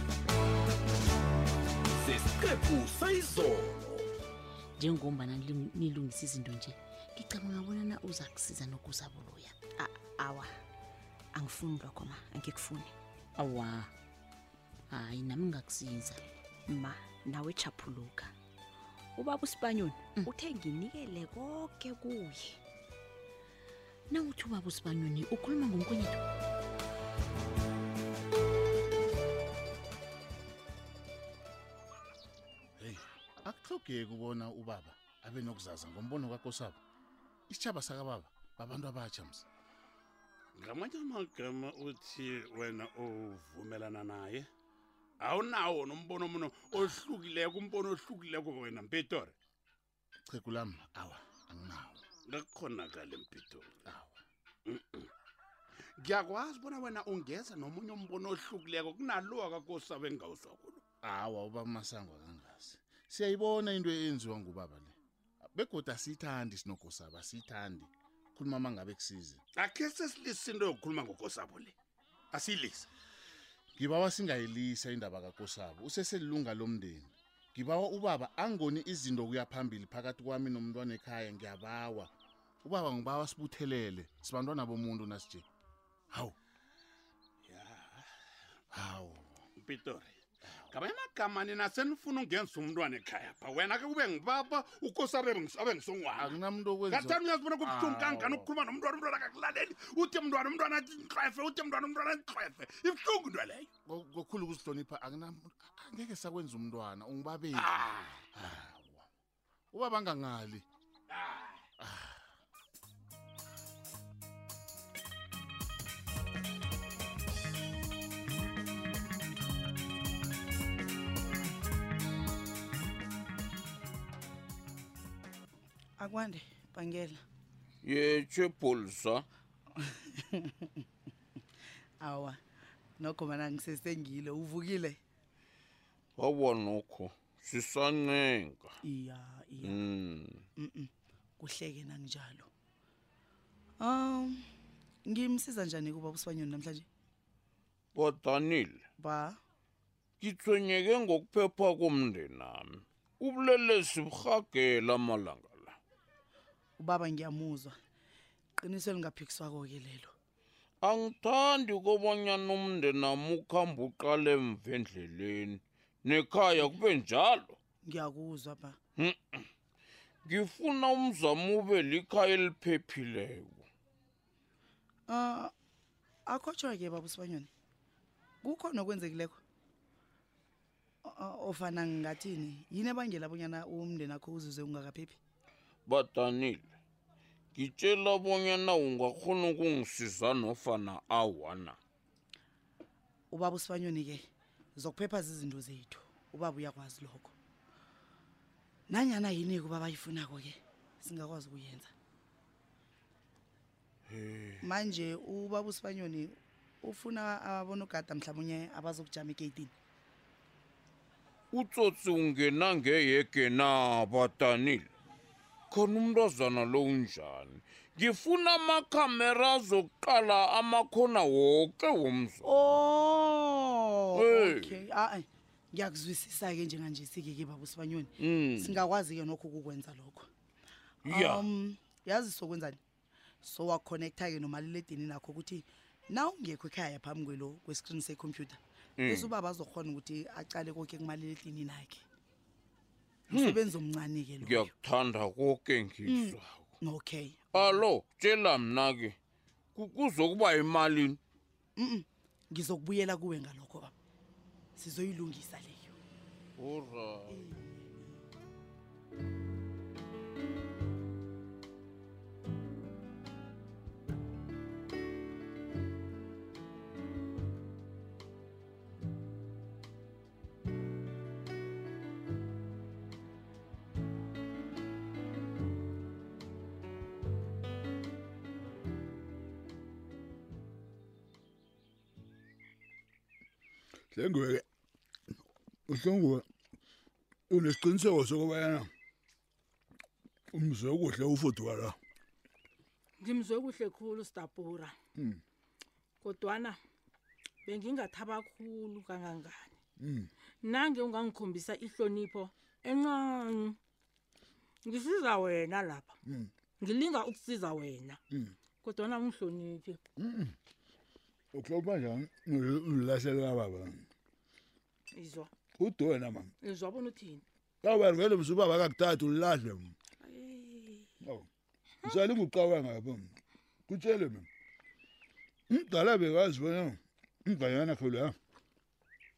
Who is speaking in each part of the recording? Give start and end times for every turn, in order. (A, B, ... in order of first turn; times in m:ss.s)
0:02.0-0:04.1 A
0:04.8-0:09.5 B
0:09.8-0:10.5 C
0:11.4-0:12.9 C
0:13.4-0:13.9 B
0:14.9-0:16.2 B
0:16.7-0:18.3 C
0:19.2-0:22.6 C
0:24.1-0:26.2 B
0:32.8-0:36.8 D
0:37.5-0:39.4 D
0:40.6-0:44.5 E
0:45.2-0:49.3 E
0:50.3-0:52.0 D
0:52.2-0:53.8 E
0:53.9-0:54.2 D
0:54.7-0:55.1 E
0:56.0-1:00.8 E
1:01.0-1:05.0 D
1:05.6-1:09.4 D
1:09.6-1:11.7 E
1:12.3-1:12.9 E
1:13.8-1:22.1 D
1:22.6-1:25.4 D
1:27.5-1:28.0 E
1:28.7-1:29.4 D
1:29.6-1:30.1 E
1:30.7-1:36.3 E
1:36.2-1:38.5 D
1:36.9-1:43.7 E
1:43.9-1:49.0 D
1:47.6-1:48.1 E
1:49.7-1:50.6 D
1:51.8-1:52.2 D
2:06.0-2:07.2 F
2:07.8-2:09.2 G
2:09.8-2:10.8 F
2:12.0-2:12.4 F
2:13.0-2:15.0 F
2:16.2-2:18.7 G
2:18.8-2:19.8 F
2:19.6-2:20.4 G
2:20.6-2:22.5 F
2:23.8-2:24.4 F
2:25.0-2:26.9 F
2:27.9-2:28.8 G
2:29.0-2:29.4 F
2:30.2-2:35.8 G
2:36.8-2:37.8 F
2:38.6-2:40.1 F
2:40.8-2:47.6 G
2:47.8-2:48.8 F
2:49.0-2:49.5 G
2:50.2-2:53.7 G
2:55.1-2:55.5 F
2:56.3-2:57.5 F
2:58.4-2:59.4 F
3:01.0-3:05.2 F
3:05.9-3:06.7 G
3:07.5-3:11.8 G
3:13.3-3:17.3 F
3:18.9-3:21.9 F
3:24.1-3:24.7 G
3:24.6-3:29.7 F
3:31.5-3:34.9 G
3:35.7-3:42.4 G
3:42.4-3:50.3 F
3:44.1-3:44.8 G
3:48.2-3:48.8 G
3:51.0-3:51.5 G
3:51.1-3:52.8 F
3:53.4-4:02.0 F
3:59.0-3:59.3 G
4:03.3-4:04.7 F
4:03.3-4:03.6 G
4:04.4-4:06.7 G
4:06.0-4:07.7 F
4:07.5-4:09.2 G
4:09.8-4:11.2 G
4:11.8-4:13.9 F
4:14.8-4:16.0 F
4:16.6-4:17.4 G
4:17.3-4:18.2 F
4:44.1-4:44.6 H
4:45.9-4:46.4 H
4:47.5-4:48.9 H
4:50.5-4:52.0 H
4:53.2-4:54.9 I
4:56.2-4:56.8 I
4:57.6-4:59.8 I
5:00.0-5:00.3 H
5:00.6-5:03.8 I
5:04.8-5:06.1 I
5:06.2-5:06.5 H
5:06.8-5:08.2 I
5:08.8-5:10.0 I
5:10.2-5:10.6 H
5:11.5-5:14.0 H
5:15.1-5:15.5 I
5:15.8-5:16.5 H
5:16.6-5:17.4 I
5:17.8-5:19.9 H
5:20.2-5:21.1 I
5:22.0-5:22.4 I
5:22.1-5:23.3 H
5:23.9-5:24.5 H
5:25.7-5:28.4 H